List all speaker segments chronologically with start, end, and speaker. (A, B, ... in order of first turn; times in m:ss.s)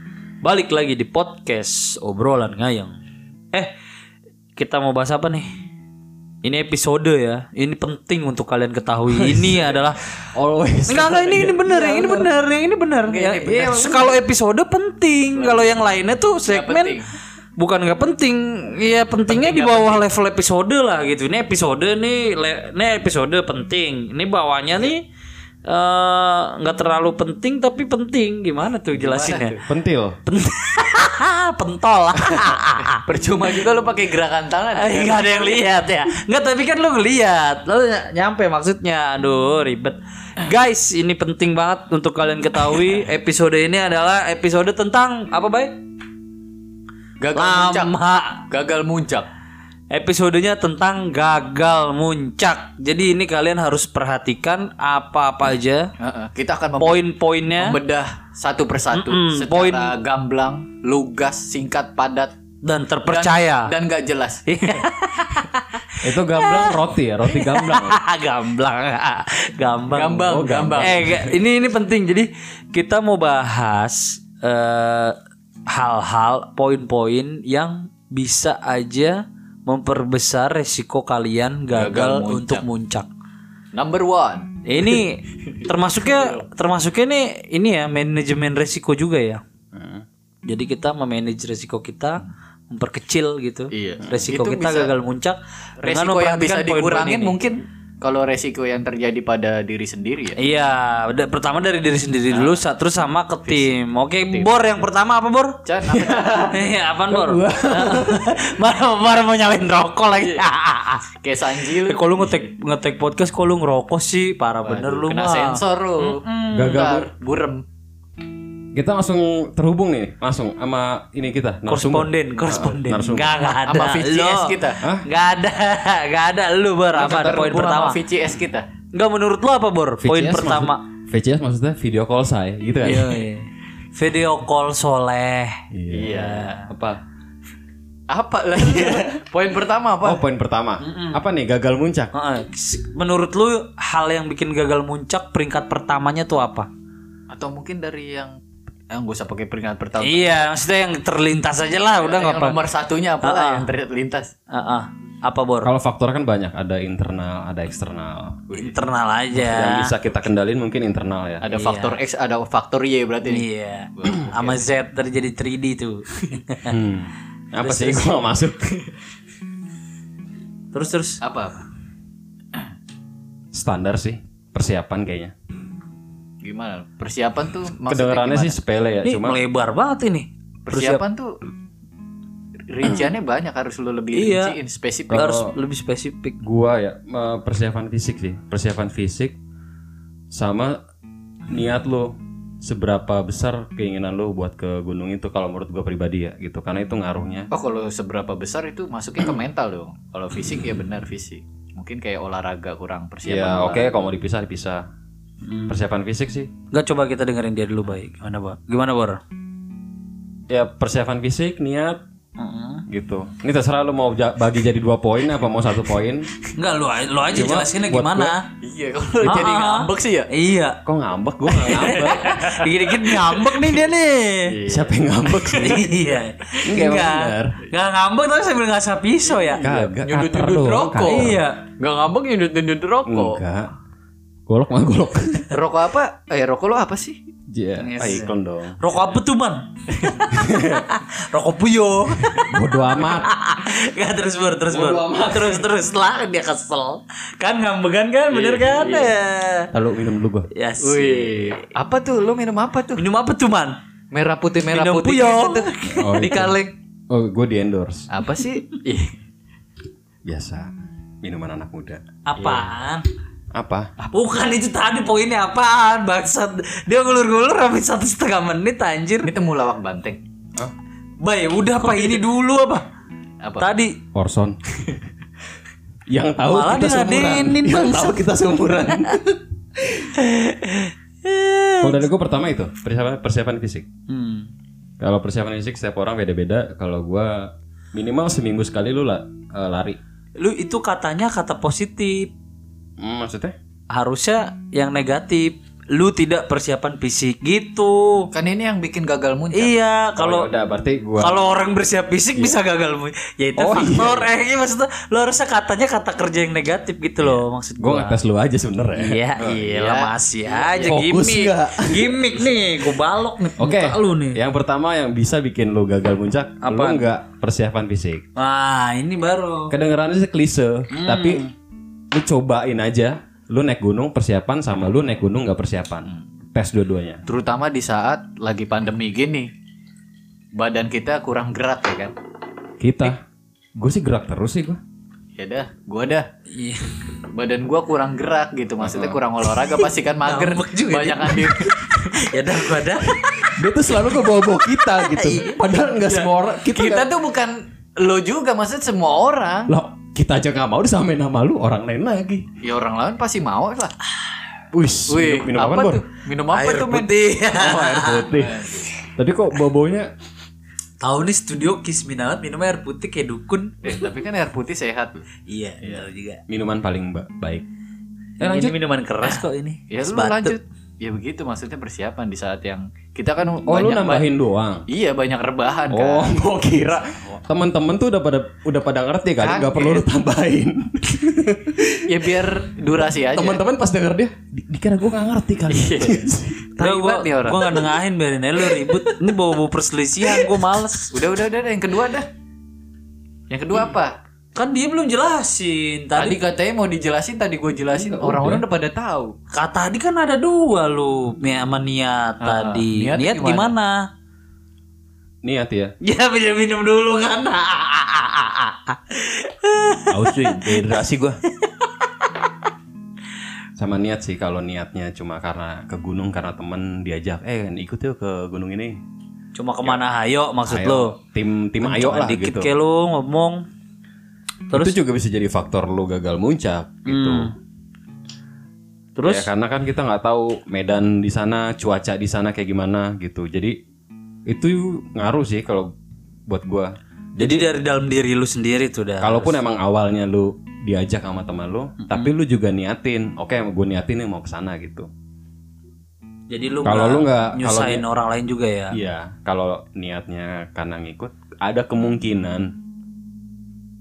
0:00.4-0:02.9 A
0:04.6-0:05.5 A
0:06.4-0:10.0 A
0:09.1-0:11.6 B
0:10.9-0:17.0 A
0:11.6-0:12.2 C
0:13.0-0:14.2 C
0:15.3-0:15.9 C
0:16.5-0:17.1 C
0:17.6-0:25.0 A
0:19.2-0:20.0 C
0:25.6-0:29.6 A
0:28.9-0:29.6 C
0:29.7-0:30.2 B
0:30.2-0:33.0 A
0:32.2-0:35.6 C
0:34.7-0:45.8 A
0:47.2-0:47.9 C
0:47.3-0:48.4 A
0:48.5-0:49.3 C
0:49.9-0:55.9 A
0:56.0-0:57.0 C
0:56.8-0:57.8 A
0:57.6-1:02.3 C
0:58.9-0:59.9 A
1:02.6-1:03.7 A
1:03.0-1:04.8 C
1:04.5-1:15.1 A
1:06.0-1:08.0 B
1:09.9-1:11.2 C
1:10.2-1:11.2 B
1:15.7-1:23.1 A
1:21.7-1:22.6 C
1:23.7-1:26.4 C
1:24.6-1:29.4 A
1:29.7-1:30.0 B
1:30.4-1:37.4 A
1:33.7-1:34.9 C
1:35.8-1:40.4 C
1:40.4-1:45.6 A
1:42.3-1:42.6 C
1:43.4-1:43.7 C
1:45.6-1:46.6 C
1:45.8-1:48.4 B
1:46.5-1:56.9 A
1:50.2-1:50.4 C
1:51.1-1:52.0 C
1:54.6-1:57.6 C
1:56.5-1:57.1 B
1:58.7-2:03.4 B
2:01.7-2:04.5 A
2:03.4-2:04.8 C
2:04.8-2:05.0 B
2:05.0-2:08.0 A
2:06.9-2:08.6 C
2:08.9-2:10.8 A
2:10.0-2:13.2 B
2:12.8-2:16.7 A
2:15.7-2:16.2 B
2:15.9-2:16.6 C
2:16.7-2:17.0 B
2:18.1-2:20.2 C
2:18.6-2:19.2 B
2:20.0-2:22.1 B
2:20.8-2:21.2 A
2:22.1-2:26.7 A
2:27.3-2:28.4 C
2:28.9-2:30.4 C
2:30.0-2:32.6 A
2:32.0-2:34.3 C
2:33.2-2:33.7 A
2:34.5-2:35.7 A
2:35.6-2:38.6 B
2:38.5-2:39.9 A
2:39.3-2:41.4 B
2:41.4-2:44.7 C
2:41.5-2:42.0 A
2:43.2-2:46.7 A
2:46.7-2:48.7 B
2:47.6-2:48.2 A
2:50.7-2:51.2 A
2:51.2-2:51.7 C
2:53.5-2:55.3 B
2:56.4-2:58.6 C
2:57.9-2:59.4 B
2:59.0-3:01.0 A
3:00.7-3:01.4 C
3:02.7-3:05.3 C
3:04.1-3:04.5 A
3:05.1-3:05.5 B
3:05.1-3:06.4 A
3:06.4-3:09.4 B
3:10.3-3:10.8 B
3:11.5-3:17.5 B
3:17.5-3:24.0 C
3:23.2-3:24.8 B
3:25.4-3:25.8 A
3:25.7-3:26.5 B
3:26.7-3:29.2 A
3:30.5-3:32.0 B
3:32.4-3:32.8 A
3:32.9-3:36.3 B
3:36.5-3:38.4 A
3:37.3-3:38.3 B
3:38.6-3:40.3 C
3:39.2-3:40.8 A
3:40.8-3:42.5 B
3:41.5-3:44.6 A
3:42.5-3:43.8 C
3:44.4-3:45.8 C
3:44.7-3:45.9 B
3:45.6-3:49.6 A
3:46.6-3:47.6 B
3:49.2-3:53.4 C
3:49.6-3:51.4 B
3:51.0-3:51.6 A
3:53.0-3:53.7 B
3:54.5-3:55.5 B
3:55.5-3:57.2 C
3:57.5-3:59.0 B
3:57.8-4:09.7 A
3:59.9-4:00.2 C
4:00.3-4:00.9 B
4:02.4-4:03.3 B
4:04.7-4:05.6 B
4:08.3-4:09.1 C
4:09.7-4:10.5 B
4:10.5-4:11.7 A
4:10.8-4:13.0 C
4:13.0-4:13.8 A
4:14.1-4:16.7 C
4:14.7-4:16.4 A
4:15.9-4:16.6 B
4:17.1-4:18.1 B
4:18.1-4:19.2 C
4:20.2-4:20.7 B
4:21.2-4:22.7 B
4:22.2-4:23.0 A
4:23.5-4:23.9 B
4:24.1-4:29.3 A
4:29.2-4:30.2 C
4:31.2-4:32.9 A
4:33.4-4:33.8 C
4:33.6-4:34.0 A
4:34.1-4:34.6 B
4:36.1-4:40.1 B
4:36.5-4:38.2 A
4:40.1-4:42.0 A
4:41.8-4:43.8 B
4:44.1-4:44.5 A
4:45.0-4:50.0 B
4:50.4-4:52.3 A
4:53.0-4:53.6 B
4:53.9-4:58.3 A
4:58.3-4:59.7 C
4:59.5-5:00.5 A
5:00.2-5:01.4 B
5:01.2-5:08.2 A
5:03.6-5:04.3 B
5:07.2-5:09.6 B
5:08.9-5:14.4 A
5:09.5-5:11.0 C
5:10.8-5:12.4 B
5:13.6-5:18.2 B
5:16.6-5:17.0 A
5:18.4-5:19.8 A
5:19.7-5:21.5 B
5:20.9-5:21.5 A
5:22.1-5:27.2 B
5:27.3-5:29.5 C
5:30.5-5:32.1 C
5:32.8-5:33.2 B
5:33.8-5:34.8 B
5:35.4-5:36.3 C
5:36.5-5:37.0 A
5:37.3-5:42.2 C
5:38.8-5:39.2 B
5:39.8-5:43.5 A
5:43.6-5:47.1 B
5:44.8-5:45.6 A
5:46.0-5:49.7 C
5:49.7-5:52.5 B
5:52.6-5:53.9 C
5:54.7-5:56.0 B
5:55.1-5:57.1 C
5:56.5-5:58.3 A
5:57.5-6:00.1 B
5:58.3-5:58.9 C
6:01.0-6:04.0 A
6:03.8-6:05.2 C
6:05.5-6:06.4 A
6:06.5-6:07.6 B
6:08.4-6:10.6 A
6:08.4-6:08.7 B
6:09.2-6:14.2 C
6:13.6-6:14.8 B
6:14.9-6:16.3 C
6:15.9-6:22.4 B
6:19.4-6:20.0 C
6:22.0-6:23.6 C
6:23.3-6:26.6 B
6:25.7-6:27.9 C
6:26.8-6:31.1 A
6:28.7-6:29.2 C
6:30.3-6:30.5 C
6:31.1-6:32.3 C
6:33.5-6:34.1 C
6:34.5-6:36.4 A
6:36.2-6:39.4 C
6:37.9-6:38.6 B
6:39.5-6:44.0 A
6:42.4-6:43.7 C
6:45.4-6:45.9 B
6:46.0-6:50.9 A
6:50.1-6:51.4 B
6:51.6-6:52.3 A
6:53.8-6:59.0 B
6:59.5-7:01.2 A
7:00.6-7:02.7 B
7:01.8-7:03.6 A
7:04.7-7:05.0 A
7:04.7-7:07.5 B
7:07.0-7:07.5 A
7:09.2-7:09.5 A
7:09.2-7:13.8 B
7:14.5-7:15.9 B
7:16.5-7:17.7 B
7:17.4-7:19.6 A
7:19.2-7:25.1 B
7:22.0-7:22.3 A
7:26.5-7:29.0 A
7:26.8-7:28.0 B
7:28.9-7:32.7 B